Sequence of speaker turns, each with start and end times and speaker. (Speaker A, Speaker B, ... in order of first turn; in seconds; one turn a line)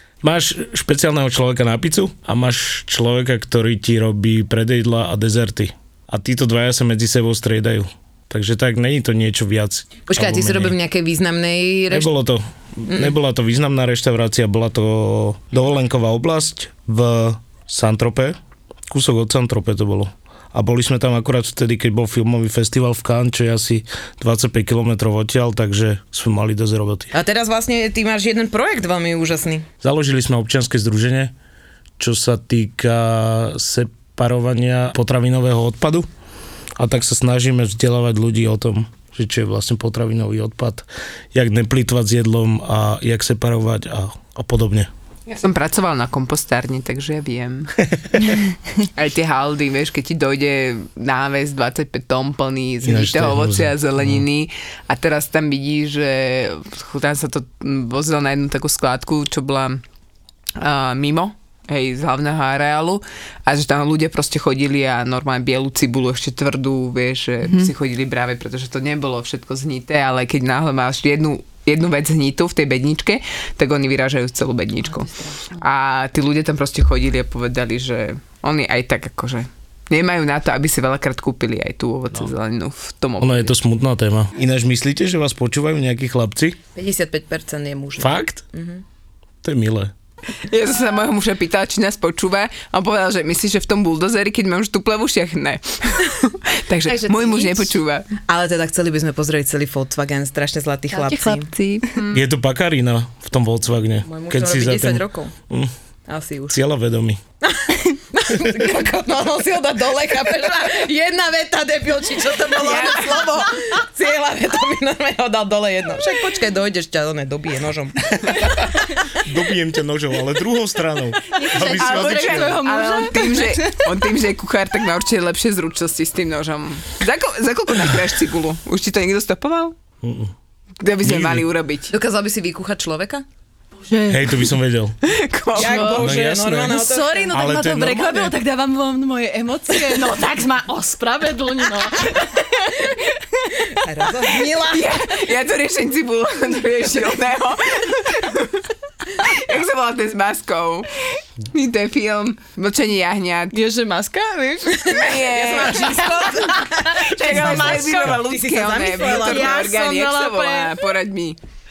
Speaker A: 0.2-10.8
Speaker B: 10.1-12.1
Speaker A: 11.9-18.4
Speaker A: 18.9-27.1
Speaker B: 27.1-29.7
Speaker A: 29.8-31.3
Speaker A: 32.0-36.1
Speaker A: 36.8-44.9
Speaker C: 45.3-47.8
Speaker C: 48.8-59.8
Speaker A: 52.8-54.2
Speaker C: 60.6-83.5
Speaker B: 75.0-75.5
Speaker A: 83.2-86.6
Speaker B: 86.8-88.8
Speaker A: 88.0-88.4
Speaker A: 89.4-89.9
Speaker C: 90.4-98.1
Speaker D: 96.9-97.7
Speaker B: 98.2-101.5
Speaker D: 100.9-102.0
Speaker C: 102.0-102.2
Speaker A: 102.1-105.7
Speaker B: 104.1-105.3
Speaker B: 106.1-106.6
Speaker A: 106.5-107.2
Speaker B: 107.4-118.4
Speaker C: 112.6-113.5
Speaker A: 119.1-122.6
Speaker D: 121.3-123.8
Speaker C: 121.6-129.8
Speaker A: 130.0-130.3
Speaker C: 130.8-131.9
Speaker A: 131.0-131.5
Speaker B: 131.9-133.2
Speaker D: 133.8-134.5
Speaker A: 134.1-134.9
Speaker C: 135.0-136.0
Speaker B: 135.6-137.3
Speaker D: 135.6-143.8
Speaker A: 135.8-136.8
Speaker A: 137.3-138.3
Speaker B: 143.8-144.9
Speaker C: 144.7-150.9
Speaker C: 151.5-153.6
Speaker D: 153.5-158.2
Speaker B: 154.8-159.8
Speaker C: 154.9-155.8
Speaker C: 157.1-161.4
Speaker D: 159.0-160.7